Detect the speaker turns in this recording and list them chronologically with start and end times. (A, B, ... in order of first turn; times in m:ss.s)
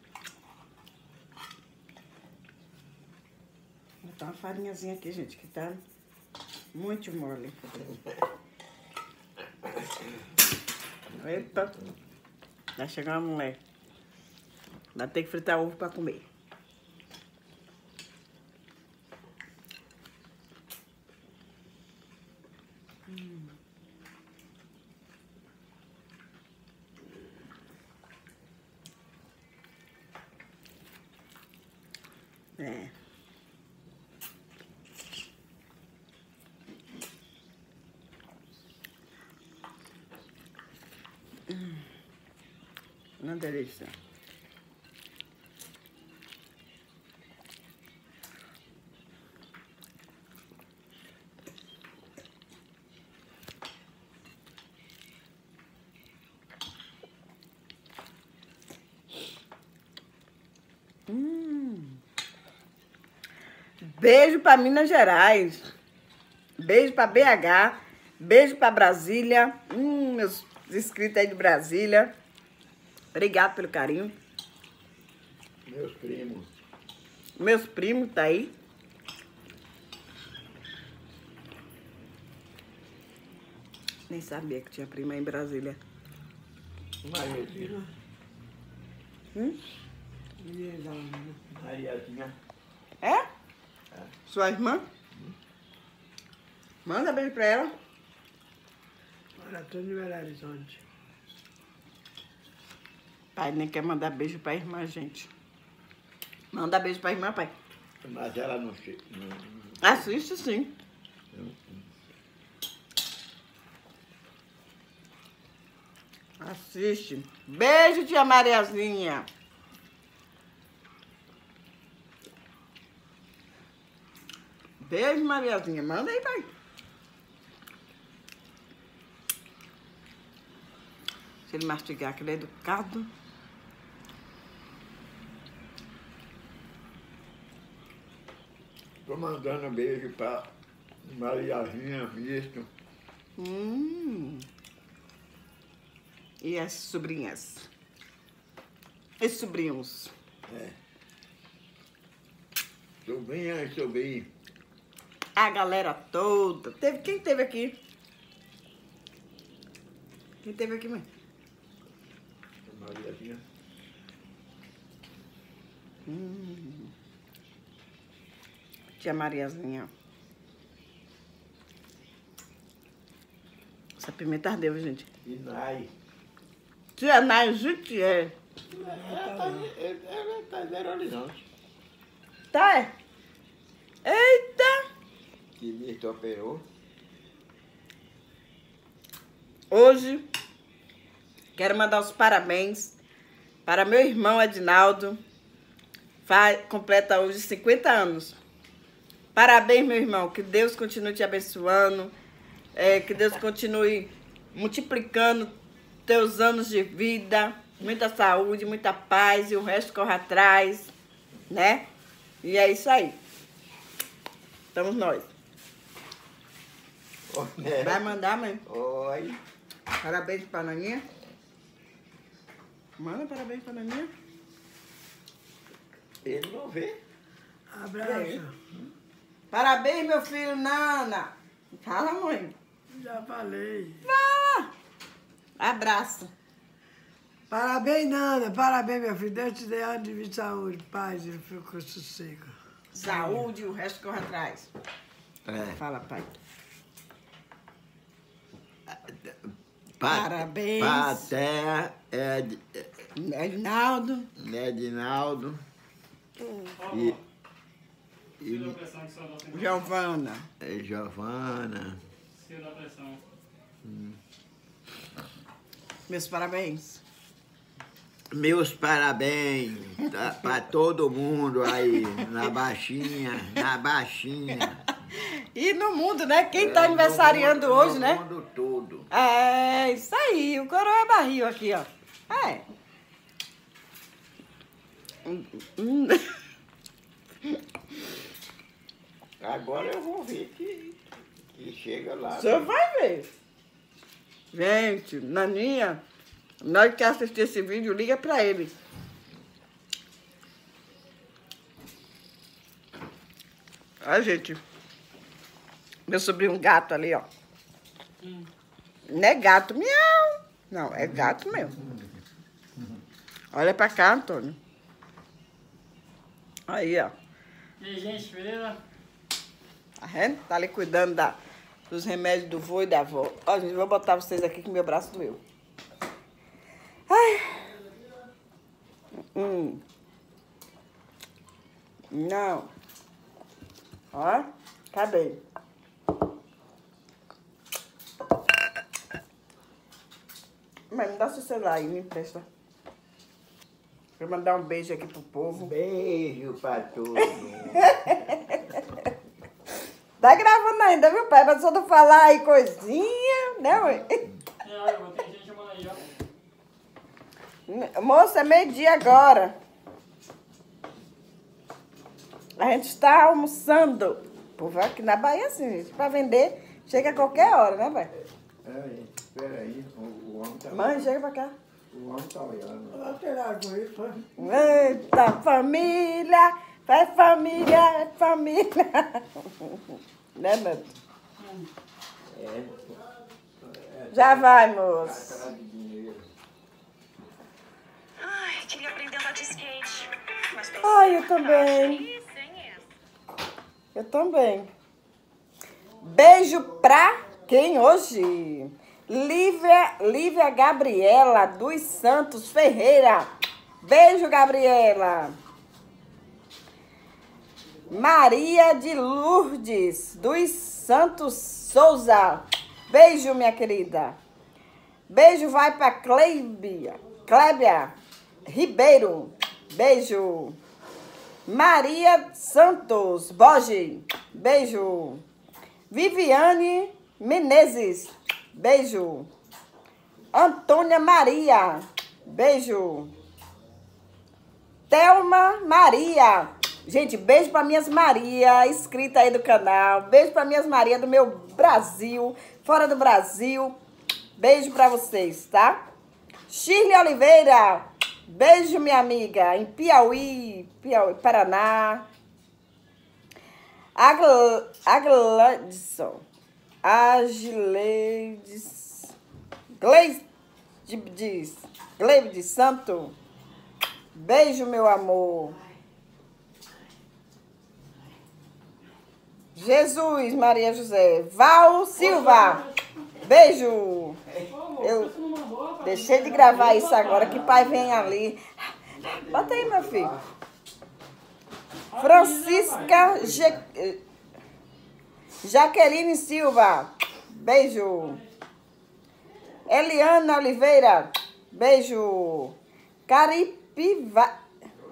0:04.0-0:05.8 A
0:06.7-0:07.6 A
0:11.2-0:11.7 A
0:12.8-0:13.6 A
0:14.9-0:16.2 A
0:23.1-0:23.5 A
0:32.6-0:32.9 A
0:41.5-0:41.8 A
0:43.2-0:43.9 A
1:01.1-1:02.0 A
1:03.8-1:05.6 A
1:06.6-1:12.1 A
1:13.1-1:14.1 A
1:15.7-1:16.5 B
1:17.4-1:18.5 A
1:24.1-1:25.8 A
1:27.0-1:27.8 B
1:30.4-1:31.4 C
1:31.5-1:32.3 B
1:34.3-1:34.8 A
1:36.8-1:37.7 A
1:39.4-1:40.8 C
1:43.4-1:45.3 A
1:46.5-1:47.5 A
1:48.0-1:50.0 B
1:49.8-1:50.7 A
1:51.3-1:51.8 B
1:56.4-1:59.3 A
2:04.8-2:06.5 A
2:11.5-2:13.1 A
2:19.0-2:20.5 B
2:21.0-2:22.7 B
2:23.4-2:24.4 A
2:26.4-2:27.7 A
2:29.2-2:30.1 A
2:30.5-2:30.8 B
2:33.0-2:34.3 B
2:35.4-2:37.8 A
2:40.4-2:41.0 A
2:42.7-2:43.4 B
2:46.0-2:46.9 A
2:49.0-2:49.9 A
2:54.0-2:55.1 A
2:55.2-2:55.9 B
2:57.0-2:58.3 A
2:58.7-3:01.4 B
2:58.8-2:59.7 C
3:02.5-3:02.9 A
3:04.0-3:04.8 A
3:05.6-3:06.6 B
3:09.7-3:10.2 A
3:11.6-3:12.9 A
3:13.6-3:15.2 A
3:16.2-3:18.4 A
3:19.3-3:22.1 A
3:22.7-3:25.5 A
3:26.1-3:30.9 A
3:31.5-3:31.8 A
3:32.4-3:33.2 A
3:34.7-3:35.2 A
3:37.3-3:38.1 B
3:37.8-3:38.6 A
3:38.6-3:39.4 B
3:40.0-3:41.0 A
3:43.0-3:44.1 A
3:46.2-3:47.0 B
3:47.7-3:48.6 C
3:48.0-3:48.4 A
3:49.5-3:52.5 A
3:52.9-3:54.0 C
3:54.0-3:54.7 A
3:55.6-3:56.3 A
3:57.5-4:03.5 C
4:02.9-4:04.7 A
4:05.4-4:05.8 B
4:05.8-4:06.4 A
4:08.9-4:09.4 B
4:10.0-4:12.9 B
4:10.0-4:11.3 A
4:13.2-4:14.3 A
4:14.4-4:15.6 B
4:16.8-4:17.2 D
4:16.8-4:17.2 B
4:18.4-4:18.8 B
4:18.4-4:19.8 D
4:19.5-4:20.5 A
4:20.6-4:22.0 B
4:22.4-4:23.2 D
4:23.8-4:24.2 B
4:26.1-4:27.0 A
4:28.3-4:34.8 B
4:31.7-4:32.5 A
4:35.1-4:38.2 A
4:36.5-4:39.1 B
4:39.1-4:42.6 A
4:45.2-4:46.2 A
4:49.4-4:51.0 B
4:51.5-4:52.7 B
4:52.3-4:53.3 A
4:54.5-4:56.0 A
4:56.6-4:58.7 A
5:04.0-5:04.6 A
5:06.1-5:07.2 A
5:08.2-5:08.5 D
5:09.1-5:11.8 A
5:13.5-5:14.6 A
5:16.7-5:17.1 A
5:17.8-5:18.8 D
5:20.0-5:21.4 A
5:21.9-5:25.4 A
5:27.1-5:27.7 A
5:29.3-5:29.8 A
5:32.1-5:32.7 A
5:34.1-5:35.4 A
5:40.9-5:42.4 A
5:44.2-5:45.7 A
5:45.6-5:48.2 B
5:47.8-5:48.8 A
5:50.2-5:54.2 A
5:54.6-5:56.0 D
5:57.7-5:59.5 A
6:02.6-6:08.1 A
6:06.9-6:07.3 B
6:08.6-6:11.1 B
6:10.7-6:11.5 A
6:11.9-6:13.1 B
6:12.9-6:14.3 C
6:14.4-6:20.9 A
6:22.3-6:23.0 B
6:23.6-6:24.5 B
6:24.1-6:25.4 A
6:25.0-6:26.2 B
6:28.3-6:30.1 E
6:30.6-6:32.1 A
6:32.2-6:32.7 E
6:33.9-6:34.7 A
6:36.0-6:43.3 A
6:43.8-6:45.3 A
6:47.9-6:54.2 A
6:55.1-6:57.9 A
6:58.5-7:00.6 A
7:01.4-7:05.2 A
7:05.9-7:09.3 A
7:10.3-7:13.1 A
7:14.9-7:23.7 A
7:24.4-7:25.8 A
7:26.5-7:32.0 A
7:33.9-7:36.2 A
7:36.8-7:39.1 A
7:39.8-7:40.2 A
7:40.8-7:43.1 A
7:44.1-7:45.6 A
7:49.5-7:52.6 A
7:52.0-7:52.8 D
7:53.2-7:54.2 A
7:54.4-7:57.4 D
7:54.8-7:55.1 A
7:55.8-7:58.4 A
7:57.4-7:58.1 B
7:59.0-8:00.1 A
7:59.0-8:00.2 B
8:01.9-8:03.3 D
8:01.9-8:04.0 A
8:05.4-8:08.2 A
8:09.7-8:12.6 A
8:13.1-8:14.3 A